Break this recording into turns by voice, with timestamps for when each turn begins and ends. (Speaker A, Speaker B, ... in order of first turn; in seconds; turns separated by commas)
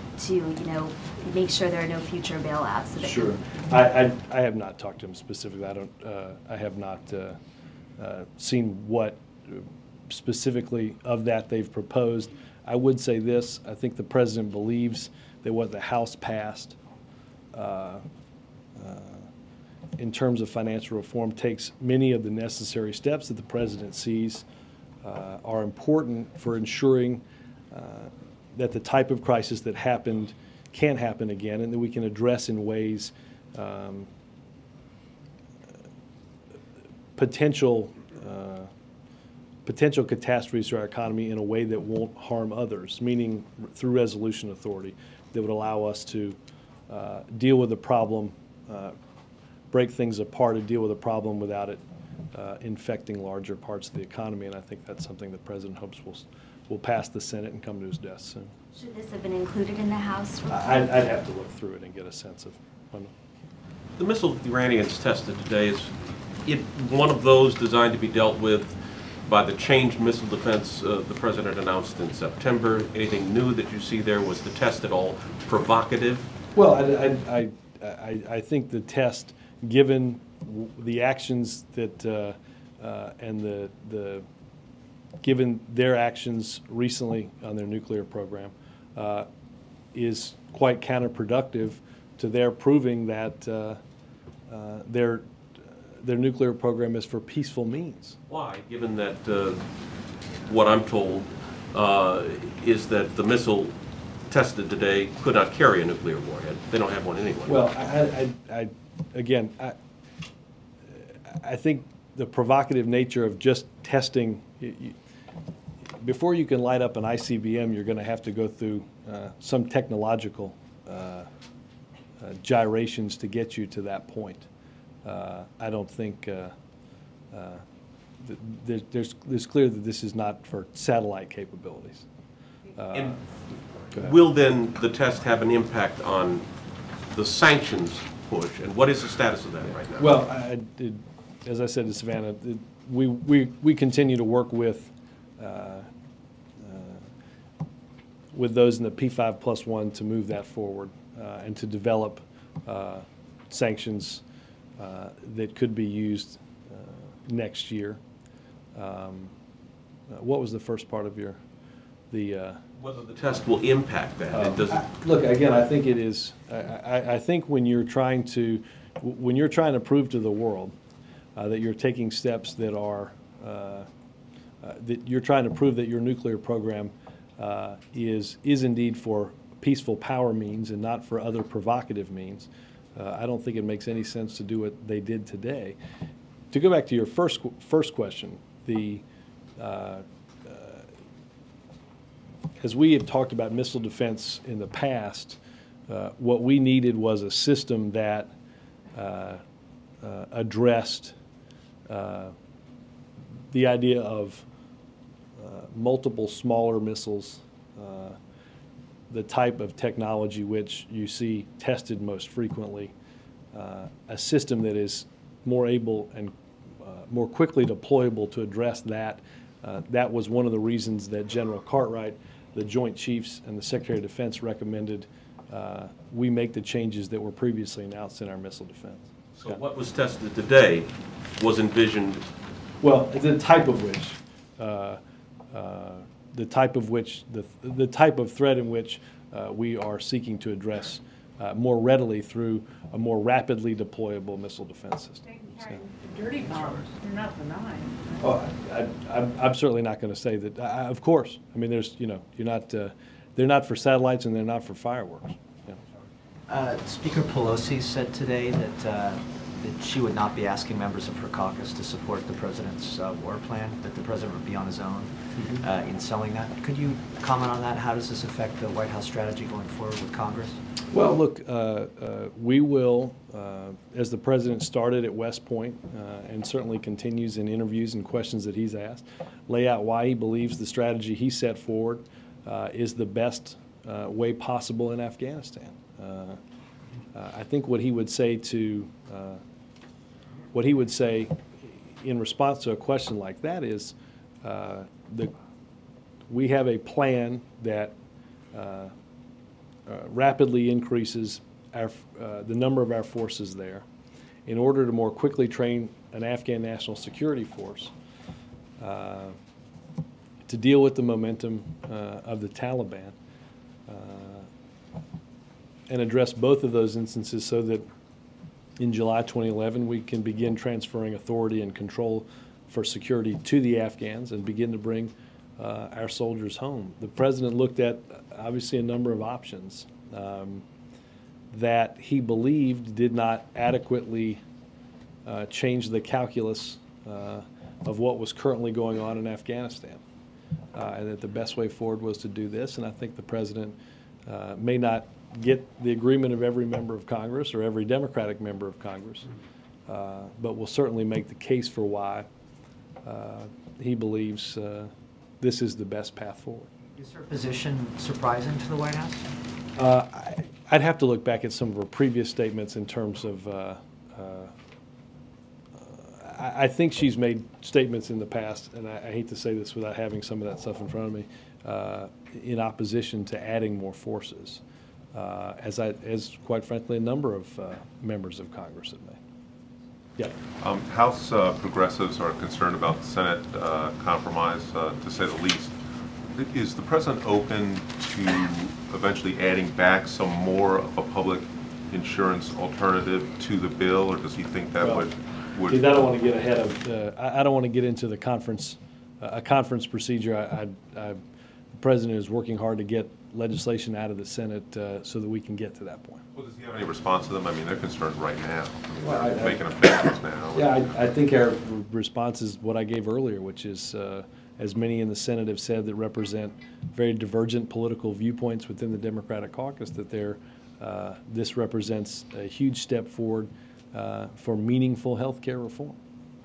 Speaker A: 0.2-3.3, Speaker B: 3.0-7.4, Speaker B: 8.0-16.8, Speaker B: 17.5-18.0, Speaker B: 18.8-19.3, Speaker B: 20.0-24.4, Speaker B: 25.0-34.1, Speaker B: 37.1-38.7, Speaker B: 39.6-46.4, Speaker B: 46.9-48.9, Speaker B: 49.7-51.8, Speaker B: 52.3-58.5, Speaker A: 58.7-60.9, Speaker B: 60.5-63.1, Speaker C: 64.0-76.3, Speaker B: 76.5-84.2, Speaker B: 85.2-89.3, Speaker B: 89.9-93.8, Speaker B: 94.5-95.3, Speaker B: 96.0-98.2, Speaker C: 98.3-99.7, Speaker C: 100.5-103.7, Speaker C: 104.2-107.7, Speaker B: 107.5-109.8, Speaker B: 111.3-114.9, Speaker B: 116.0-121.3, Speaker B: 122.2-124.5, Speaker B: 125.0-126.5, Speaker B: 127.3-127.6, Speaker B: 128.2-132.1, Speaker B: 132.8-133.2, Speaker C: 132.9-133.2, Speaker C: 133.8-136.5, Speaker C: 137.0-140.2, Speaker B: 140.0-145.9, Speaker B: 146.6-147.1, Speaker B: 148.3-154.2, Speaker B: 154.8-158.0, Speaker B: 158.7-159.3, Speaker B: 160.1-161.4, Speaker B: 162.1-162.6, Speaker C: 162.8-164.9, Speaker B: 164.3-170.7, Speaker B: 171.3-173.9, Speaker B: 174.6-185.8, Speaker B: 186.5-189.0, Speaker B: 189.6-190.9, Speaker B: 192.6-198.3, Speaker B: 198.9-199.4, Speaker B: 200.0-201.1, Speaker B: 201.9-202.3, Speaker B: 203.5-204.4, Speaker B: 205.4-208.2, Speaker B: 209.1-212.9, Speaker B: 213.5-229.6, Speaker C: 229.3-232.2, Speaker B: 232.8-235.0, Speaker B: 235.5-245.8, Speaker D: 245.2-248.3, Speaker B: 248.2-255.8, Speaker E: 256.5-270.6, Speaker B: 270.9-286.4, Speaker B: 287.1-289.4, Speaker B: 290.5-295.3, Speaker B: 296.3-297.9, Speaker B: 298.5-298.9, Speaker B: 299.9-303.8, Speaker B: 304.4-307.9, Speaker B: 308.8-309.4, Speaker B: 310.5-313.1, Speaker B: 313.9-314.5, Speaker B: 315.9-317.9, Speaker B: 318.8-330.6, Speaker B: 331.5-334.4, Speaker B: 335.2-340.0, Speaker B: 340.7-349.3, Speaker B: 349.9-352.3, Speaker B: 353.0-356.7, Speaker E: 356.9-359.3, Speaker B: 359.8-364.5, Speaker B: 365.7-374.6, Speaker B: 375.1-379.2, Speaker F: 380.6-385.8, Speaker F: 386.3-395.9, Speaker B: 394.8-395.1, Speaker B: 395.7-401.2, Speaker B: 401.7-406.2, Speaker F: 406.3-410.8, Speaker B: 409.0-410.0, Speaker B: 410.5-426.0